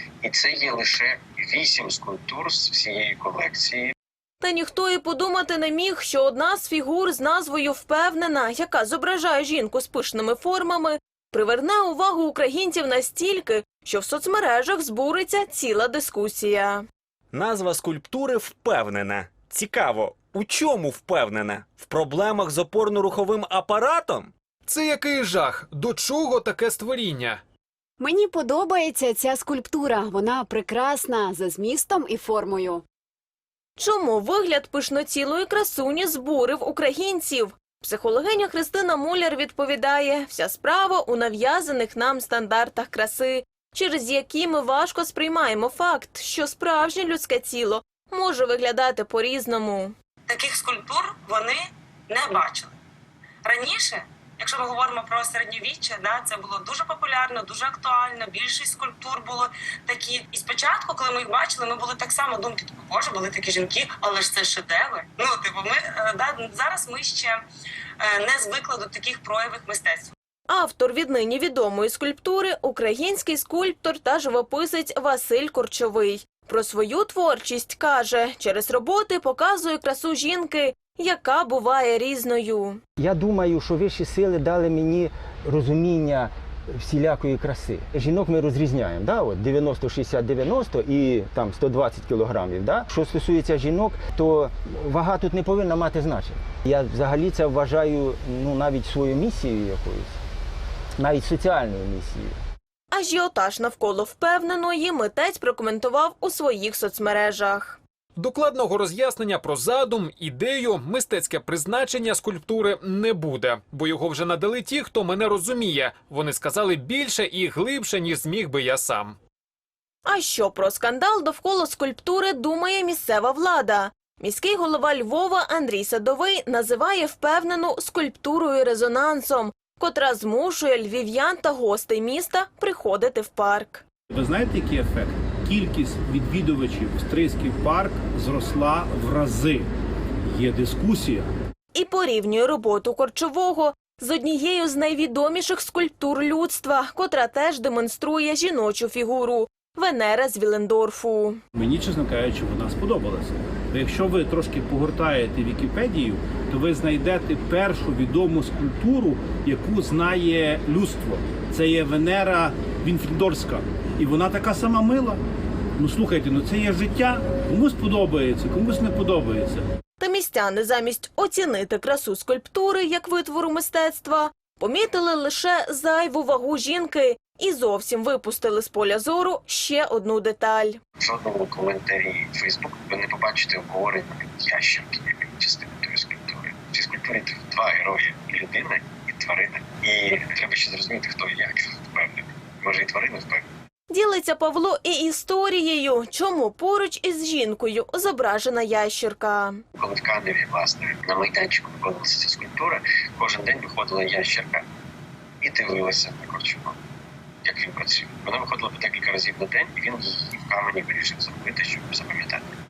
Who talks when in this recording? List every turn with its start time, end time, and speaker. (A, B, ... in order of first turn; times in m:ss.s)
0:00.2-0:03.9 A
0:04.4-0:16.8 B
0:17.3-0:24.3 C
0:24.7-0:27.4 D
0:28.0-0:32.8 E
0:33.8-0:49.9 B
0:50.3-0:52.8 F
0:53.4-1:07.4 F
1:08.0-1:10.1 F
1:10.5-1:22.8 B
1:23.0-1:40.1 G
1:41.0-1:42.3 G
1:42.9-1:47.8 B
1:48.2-1:59.2 D
2:00.0-2:13.8 B
2:14.1-2:19.7 H
2:20.2-2:21.3 H
2:21.7-2:31.4 B
2:31.5-2:45.2 H
2:45.8-2:49.6 H
2:50.0-3:00.8 B
3:01.0-3:13.4 A
3:13.9-3:19.6 B
3:19.8-3:24.6 A
3:25.4-3:26.7 A
3:27.4-3:32.5 A